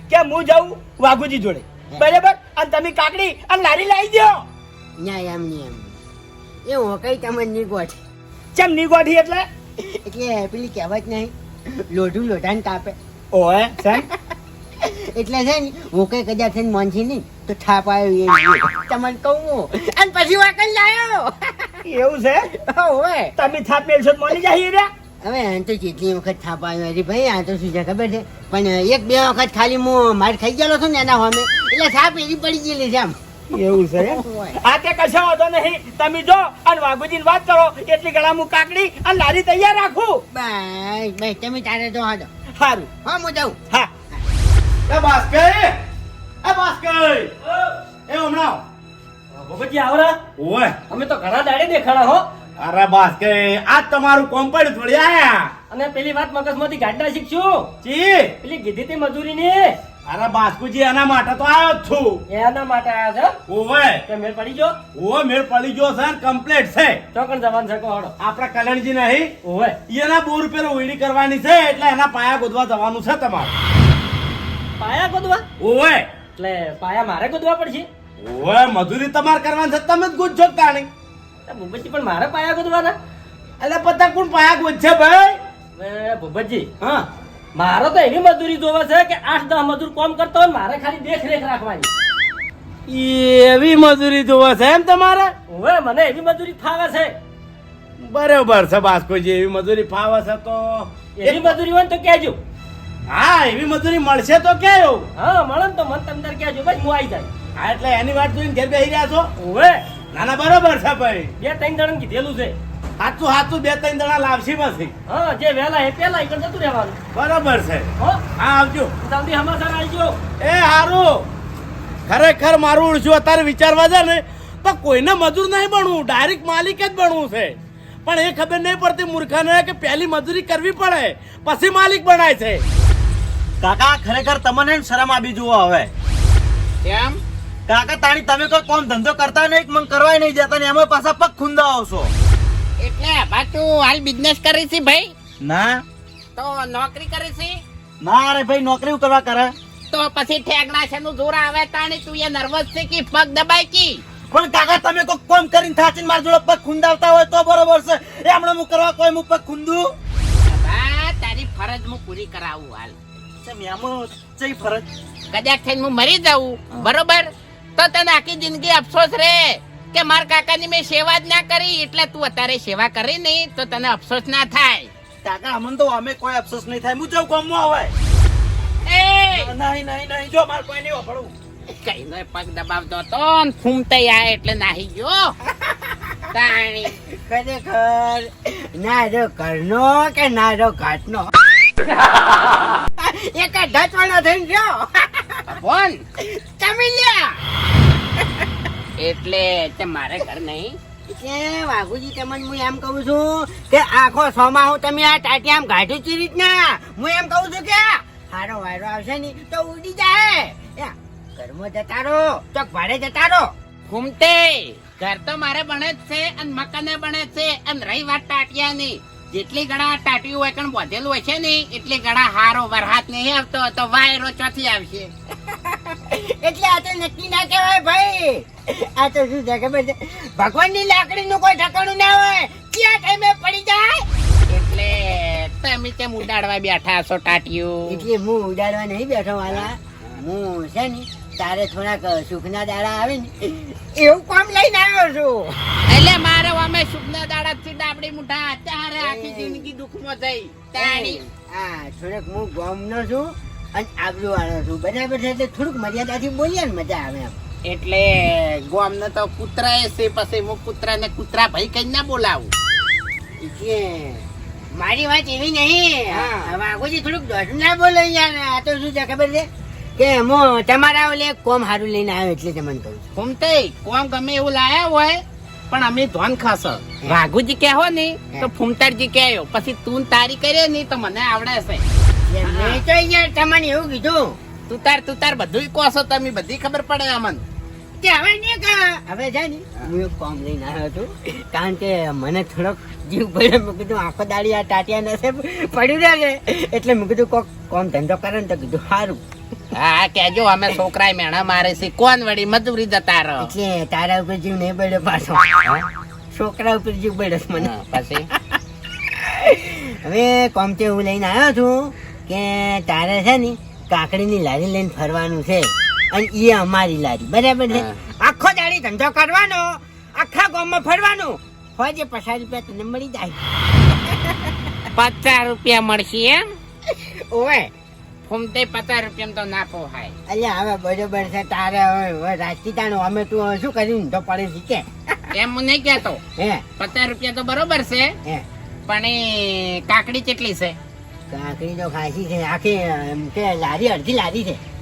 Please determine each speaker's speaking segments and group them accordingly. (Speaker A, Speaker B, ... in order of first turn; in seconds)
Speaker A: 0.1-4.5, 8.6-9.5, 13.3-14.1, 21.9-22.5, 23.4-24.9, 33.5-40.2, 42.6-42.9
Speaker B: 5.0-6.0, 6.7-8.0, 9.8-13.0, 14.8-21.8, 22.5-23.4, 25.2-33.2, 34.0-34.6, 40.3-42.3, 43.0-43.6, 185.5-186.2, 187.0-191.3, 193.0-195.6, 196.2-197.4, 201.1-213.5, 225.5-234.1, 237.9-245.6, 249.0-249.7, 250.8-257.4, 263.4-264.2, 264.8-273.0, 282.3-284.4, 288.0-299.2, 303.4-305.6, 306.3-307.7, 308.3-324.7, 326.9-327.7, 330.3-335.3, 336.4-336.6, 341.3-344.6
Speaker C: 44.9-45.8, 46.4-47.3, 48.1-48.6, 50.4-50.8, 52.6-55.5, 57.8-58.4, 60.1-62.2, 63.5-64.1, 64.9-67.0, 68.2-69.3, 69.9-73.5, 75.6-76.1, 78.2-80.9, 83.6-85.4, 86.8-87.1, 92.9-95.3, 98.0-101.6, 103.1-105.1, 107.6-109.3, 110.1-111.3, 113.0-114.9, 117.1-118.9, 120.4-121.3, 122.1-132.7
Speaker D: 49.4-50.2, 50.9-52.2, 55.7-57.8, 58.4-59.8, 62.3-63.4, 64.1-64.8, 67.1-68.1, 69.4-69.8, 74.8-75.5, 76.4-77.9, 81.5-83.0, 85.8-86.7, 87.6-91.9, 95.5-97.1, 101.2-102.4, 105.2-107.3, 109.4-109.8, 111.4-112.5, 115.1-117.0, 119.0-120.2
Speaker E: 133.6-135.9, 137.7-142.1, 145.4-145.8, 148.0-149.5, 154.3-159.9, 163.4-164.9, 175.2-177.9, 179.3-181.3
Speaker F: 136.8-137.2, 142.8-145.1, 146.4-147.6, 149.9-154.0, 160.5-163.0, 165.3-174.9, 178.9-179.5, 181.7-185.3, 186.3-187.0, 195.5-196.0, 199.0-200.8, 213.9-225.1, 234.5-238.0, 245.9-251.2, 257.7-262.5, 266.1-266.6, 273.1-281.9, 282.4-282.8, 284.7-287.4, 299.7-303.5, 307.6-308.3, 317.7-318.0, 324.9-326.5, 328.3-330.1, 335.3-336.2, 336.8-338.2, 338.9-340.8